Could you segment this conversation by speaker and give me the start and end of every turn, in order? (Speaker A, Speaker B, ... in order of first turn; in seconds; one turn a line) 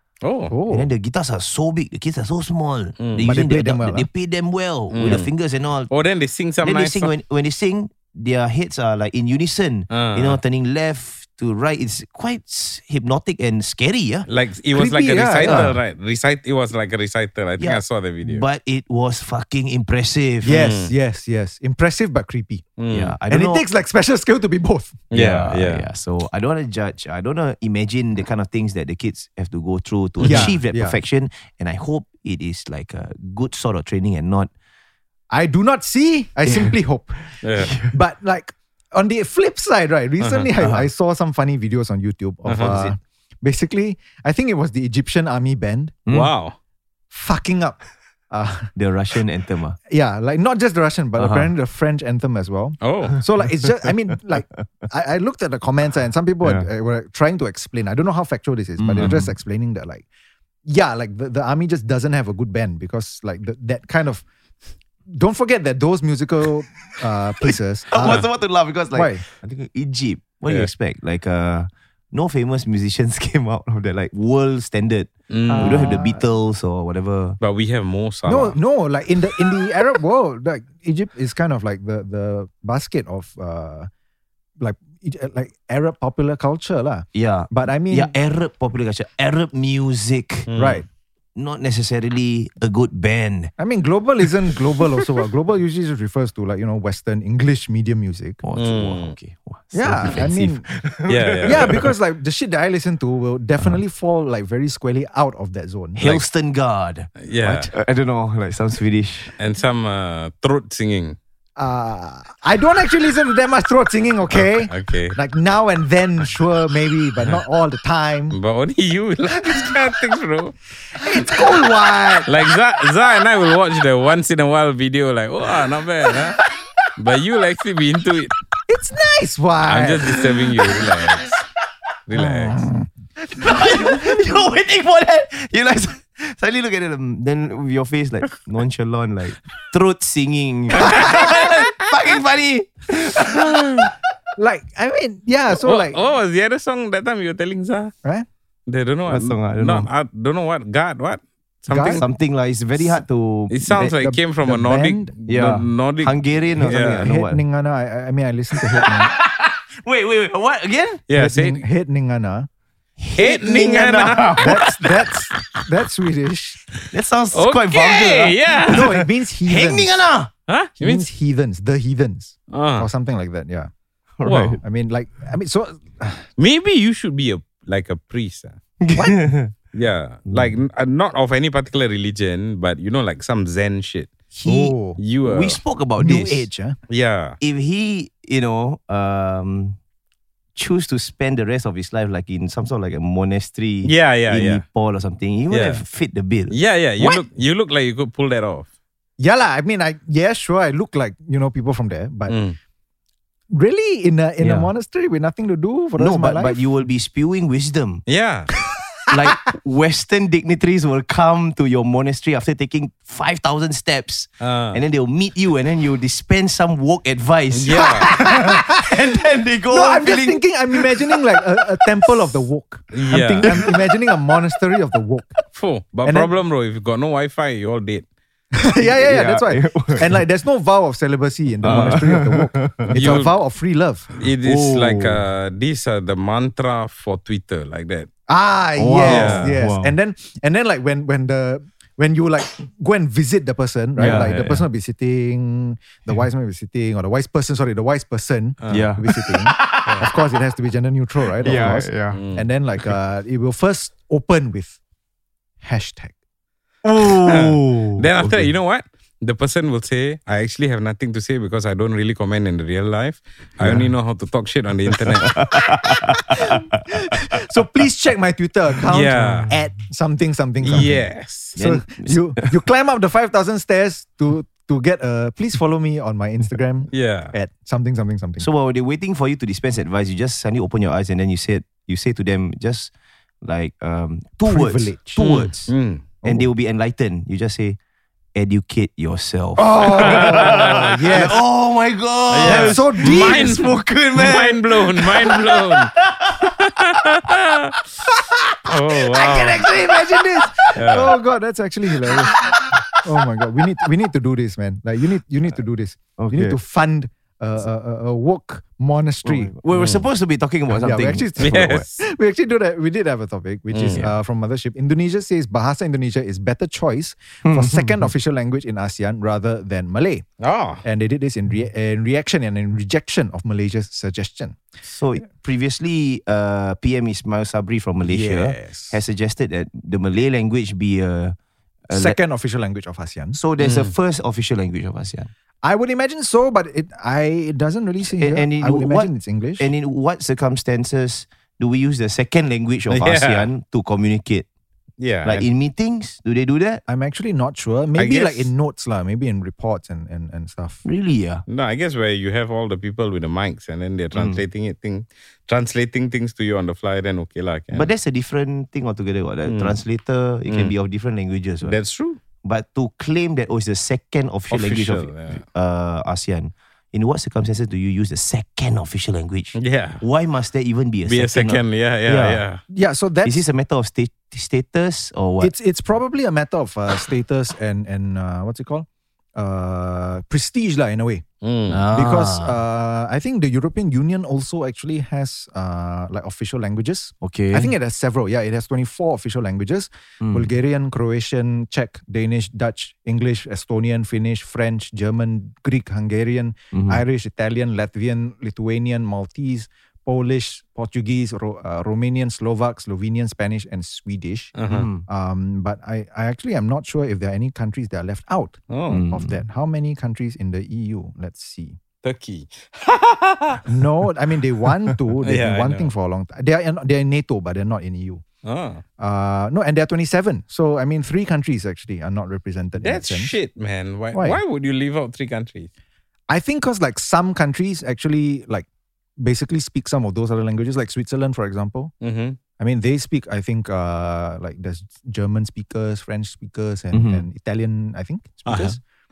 Speaker A: 0.2-0.5
Speaker B: 0.5-0.9
Speaker C: 0.7-5.9
Speaker A: 3.0-3.3
Speaker B: 3.2-4.1
Speaker A: 4.9-5.3
Speaker A: 5.9-7.1
Speaker C: 6.6-14.3
Speaker A: 9.9-10.4
Speaker A: 14.3-18.4
Speaker B: 14.7-15.7
Speaker C: 15.4-15.8
Speaker C: 17.6-20.6
Speaker B: 20.4-22.6
Speaker A: 20.5-20.9
Speaker A: 22.8-23.1
Speaker C: 22.9-23.6
Speaker B: 23.3-25.0
Speaker A: 25.1-25.8
Speaker C: 25.1-34.5
Speaker A: 30.2-30.5
Speaker B: 30.2-31.0
Speaker B: 35.3-37.2
Speaker C: 36.5-36.7
Speaker A: 37.4-37.7
Speaker C: 37.5-37.9
Speaker B: 37.8-46.0
Speaker A: 40.2-40.5
Speaker C: 40.6-40.9
Speaker A: 42.5-42.8
Speaker C: 42.6-42.9
Speaker C: 46.1-46.3
Speaker A: 46.1-46.5
Speaker B: 47.1-47.8
Speaker B: 48.3-48.7
Speaker C: 48.7-49.8
Speaker B: 49.9-60.0
Speaker C: 51.2-51.5
Speaker A: 52.8-53.2
Speaker C: 56.4-56.7
Speaker C: 58.8-59.3
Speaker B: 60.6-64.2
Speaker B: 65.1-68.3
Speaker C: 67.4-77.4
Speaker A: 68.0-68.3
Speaker B: 68.9-69.2
Speaker A: 75.3-76.0
Speaker B: 75.5-76.2
Speaker A: 77.4-78.6
Speaker B: 78.2-83.9
Speaker B: 84.6-88.1
Speaker C: 87.1-90.5
Speaker A: 90.5-90.8
Speaker B: 90.5-90.8
Speaker C: 91.3-93.5
Speaker B: 93.6-98.4
Speaker C: 98.4-101.9
Speaker A: 98.5-99.1
Speaker B: 99.7-100.6
Speaker A: 101.1-101.8
Speaker B: 101.4-106.2
Speaker C: 106.0-109.3
Speaker A: 107.2-107.7
Speaker A: 109.4-111.2
Speaker B: 111.6-118.4
Speaker A: 114.3-115.2
Speaker A: 118.3-120.5
Speaker B: 121.0-122.3
Speaker A: 122.2-126.4
Speaker A: 127.0-128.3
Speaker B: 128.7-130.2
Speaker A: 129.7-131.4
Speaker A: 132.1-132.6
Speaker B: 132.1-132.9
Speaker C: 133.2-143.9
Speaker B: 133.5-134.1
Speaker A: 140.8-141.6
Speaker B: 140.8-141.2
Speaker B: 144.4-146.0
Speaker A: 145.5-147.9
Speaker A: 148.7-152.1
Speaker C: 149.1-149.9
Speaker B: 151.7-152.0
Speaker C: 151.9-153.9
Speaker A: 153.5-157.1
Speaker B: 153.7-155.1
Speaker C: 155.3-157.4
Speaker B: 156.6-159.1
Speaker C: 158.6-161.0
Speaker A: 161.1-161.6
Speaker B: 161.1-162.5
Speaker C: 163.0-165.1
Speaker A: 163.2-164.6
Speaker B: 164.3-166.6
Speaker C: 166.9-170.3
Speaker A: 167.3-168.9
Speaker B: 168.6-170.0
Speaker A: 170.5-171.1
Speaker B: 170.8-173.7
Speaker A: 172.5-172.9
Speaker C: 174.2-174.6
Speaker A: 174.2-174.6
Speaker B: 174.6-176.3
Speaker A: 176.4-178.6
Speaker C: 178.8-179.5
Speaker B: 178.9-179.2
Speaker A: 179.7-184.1
Speaker C: 180.3-180.6
Speaker B: 184.3-185.0
Speaker C: 184.4-186.5
Speaker A: 185.0-185.6
Speaker B: 186.0-186.8
Speaker A: 186.9-187.4
Speaker C: 187.4-189.8
Speaker C: 190.5-196.6
Speaker A: 193.8-194.6
Speaker A: 195.5-195.8
Speaker A: 196.5-198.7
Speaker B: 197.0-197.2
Speaker B: 199.2-202.4
Speaker A: 202.3-202.6
Speaker B: 203.5-206.6
Speaker C: 204.4-204.7
Speaker C: 206.0-208.0
Speaker A: 208.1-208.5
Speaker C: 209.1-221.3
Speaker A: 214.4-214.8
Speaker A: 217.5-218.1
Speaker B: 217.7-219.2
Speaker B: 219.7-225.3
Speaker A: 222.9-223.5
Speaker C: 223.4-223.9
Speaker A: 225.5-228.0
Speaker B: 226.0-226.3
Speaker B: 228.5-234.1
Speaker C: 228.8-230.2
Speaker C: 231.6-233.2
Speaker A: 231.6-232.0
Speaker A: 232.9-233.3
Speaker A: 234.2-238.1
Speaker C: 234.4-235.2
Speaker B: 238.3-254.8
Speaker C: 238.8-239.9
Speaker A: 239.0-239.6
Speaker C: 244.0-244.6
Speaker A: 244.1-244.3
Speaker A: 248.6-248.9
Speaker C: 248.7-250.1
Speaker C: 251.4-252.2
Speaker A: 251.4-252.5
Speaker B: 255.6-256.1
Speaker C: 256.8-258.5
Speaker A: 257.2-265.7
Speaker C: 263.6-263.9
Speaker C: 264.9-267.3
Speaker B: 267.3-278.5
Speaker A: 268.9-269.5
Speaker C: 269.1-269.5
Speaker A: 270.6-271.6
Speaker C: 271.6-272.5
Speaker A: 276.9-277.3
Speaker C: 278.4-282.9
Speaker C: 283.4-287.8
Speaker B: 284.4-285.4
Speaker A: 285.2-286.1
Speaker B: 286.2-286.5
Speaker C: 288.3-296.7
Speaker B: 289.6-291.4
Speaker A: 289.9-291.2
Speaker A: 292.3-297.7
Speaker B: 292.4-293.6
Speaker A: 298.7-299.6
Speaker C: 298.7-300.8
Speaker B: 299.2-302.4
Speaker A: 300.8-301.1
Speaker C: 301.9-302.8
Speaker B: 303.0-309.5
Speaker C: 306.2-306.6
Speaker C: 309.2-311.9
Speaker A: 309.7-310.1
Speaker B: 310.7-320.2
Speaker A: 311.4-312.0
Speaker A: 313.7-314.0
Speaker C: 317.4-318.1
Speaker A: 320.4-320.8
Speaker B: 320.8-324.6
Speaker C: 324.8-331.4
Speaker B: 328.0-329.0
Speaker C: 331.9-332.2
Speaker B: 331.9-333.4
Speaker C: 333.3-335.3
Speaker A: 333.6-333.9
Speaker B: 335.6-339.7
Speaker C: 338.1-344.5
Speaker A: 342.9-343.5
Speaker A: 345.0-345.5
Speaker C: 345.2-346.8
Speaker B: 346.9-350.8
Speaker A: 347.9-348.5
Speaker C: 350.8-351.4
Speaker A: 351.5-357.9
Speaker C: 354.1-354.4
Speaker C: 357.7-361.8
Speaker A: 359.4-359.8
Speaker A: 360.4-360.7
Speaker A: 361.6-362.2
Speaker C: 362.4-372.4
Speaker A: 364.5-365.4
Speaker A: 369.6-370.0
Speaker A: 371.1-372.6
Speaker B: 372.7-373.4
Speaker C: 373.2-375.5
Speaker B: 375.4-381.2
Speaker A: 381.4-381.8
Speaker C: 381.7-382.6
Speaker B: 381.9-404.5
Speaker C: 387.2-387.7
Speaker C: 390.2-390.5
Speaker C: 396.7-397.0
Speaker A: 404.6-404.9
Speaker C: 404.7-405.1
Speaker B: 405.1-411.8
Speaker A: 408.7-409.1
Speaker C: 408.9-409.4
Speaker A: 412.0-413.6
Speaker B: 413.6-418.2
Speaker A: 415.2-415.9
Speaker A: 418.4-418.8
Speaker B: 419.0-423.3
Speaker A: 422.8-425.7
Speaker B: 424.1-424.4
Speaker B: 426.3-428.7
Speaker B: 429.2-431.9
Speaker A: 432.0-432.4
Speaker B: 432.6-438.8
Speaker C: 436.9-437.2
Speaker A: 438.4-438.8